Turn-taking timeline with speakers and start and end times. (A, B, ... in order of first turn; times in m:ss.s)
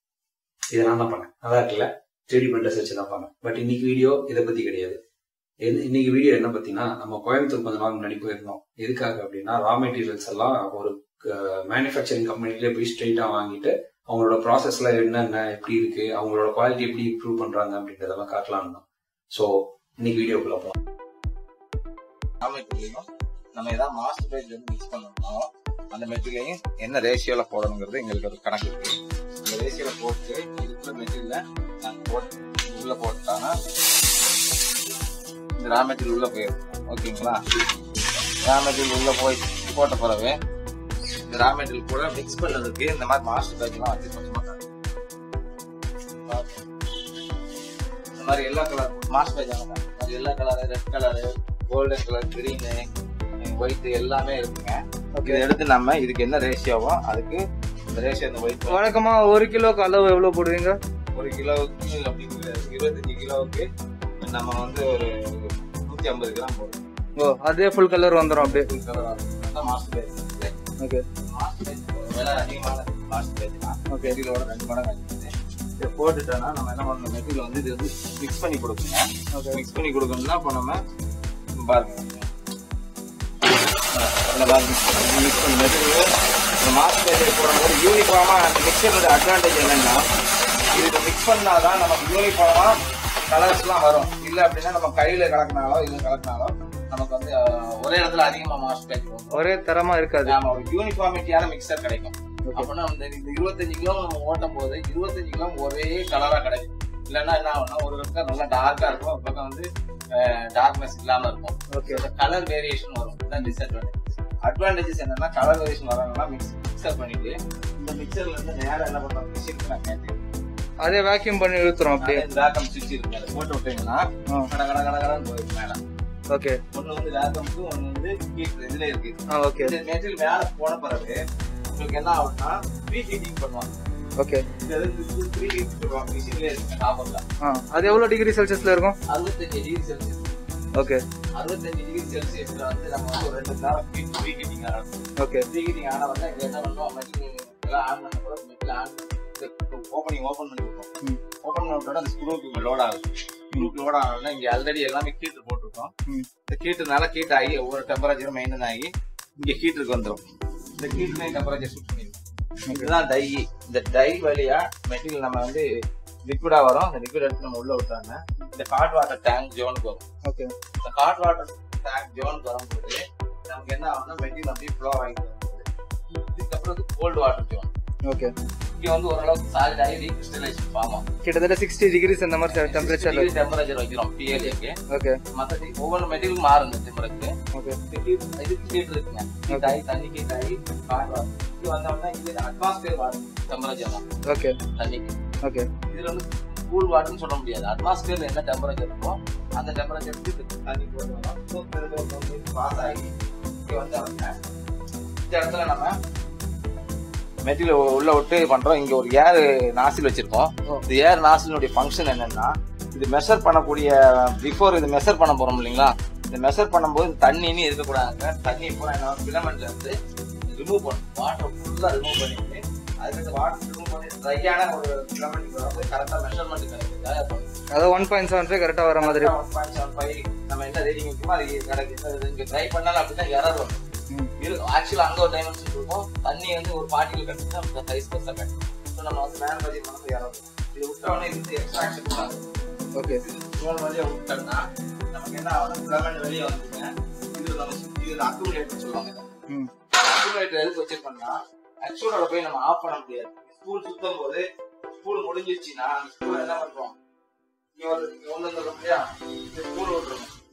0:00.7-0:05.0 A
0:05.6-0:20.7 A
0:22.4-0:33.5 B
0:35.6-0:37.4 B
0:37.9-0:40.4 B
0:41.3-0:44.6 B
0:46.2-0:46.6 B
0:48.2-0:52.9 B
0:53.4-0:58.8 B
0:55.2-0:55.4 C
0:58.7-1:00.8 C
1:01.1-1:03.6 B
1:04.2-1:06.9 B
1:07.2-1:08.7 C
1:08.4-1:10.5 B
1:11.2-1:20.8 B
1:21.6-1:22.3 B
1:23.9-1:26.1 B
1:26.6-1:30.0 B
1:30.7-1:32.8 B
1:33.3-1:39.4 B
1:39.3-1:40.4 C
1:40.2-2:00.2 B
1:51.7-1:52.0 C
2:00.8-2:02.2 C
2:02.0-2:05.8 B
2:06.3-2:06.6 C
2:06.7-2:13.7 B
2:09.3-2:09.7 C
2:14.2-2:14.4 C
2:14.6-2:17.2 B
2:17.4-2:18.9 C
2:19.1-2:20.3 B
2:21.4-2:24.9 B
2:25.2-2:25.4 C
2:25.5-2:30.9 B
2:31.4-2:33.0 B
2:33.5-2:35.9 B
2:36.5-2:38.9 B
2:39.4-2:42.2 B
2:42.7-2:45.6 B
2:46.3-2:50.0 B
2:50.8-2:57.7 B
2:58.0-2:58.3 C
2:58.8-3:01.0 B
3:01.2-3:03.3 C
3:02.5-3:04.7 B
3:04.9-3:05.2 C
3:05.3-3:07.3 B
3:07.9-3:14.0 B
3:09.5-3:09.7 C
3:14.3-3:14.6 C
3:14.8-3:15.1 B
3:15.9-3:23.1 B
3:23.6-3:24.3 B
3:25.2-3:25.9 B
3:27.4-3:39.9 B
3:40.5-3:47.5 B
3:47.7-3:49.3 C
3:49.0-3:53.8 B
3:54.4-4:02.4 B
4:03.0-4:03.2 C
4:03.0-4:09.2 B
4:09.9-4:14.4 B
4:15.0-4:17.0 B
4:17.8-4:20.3 B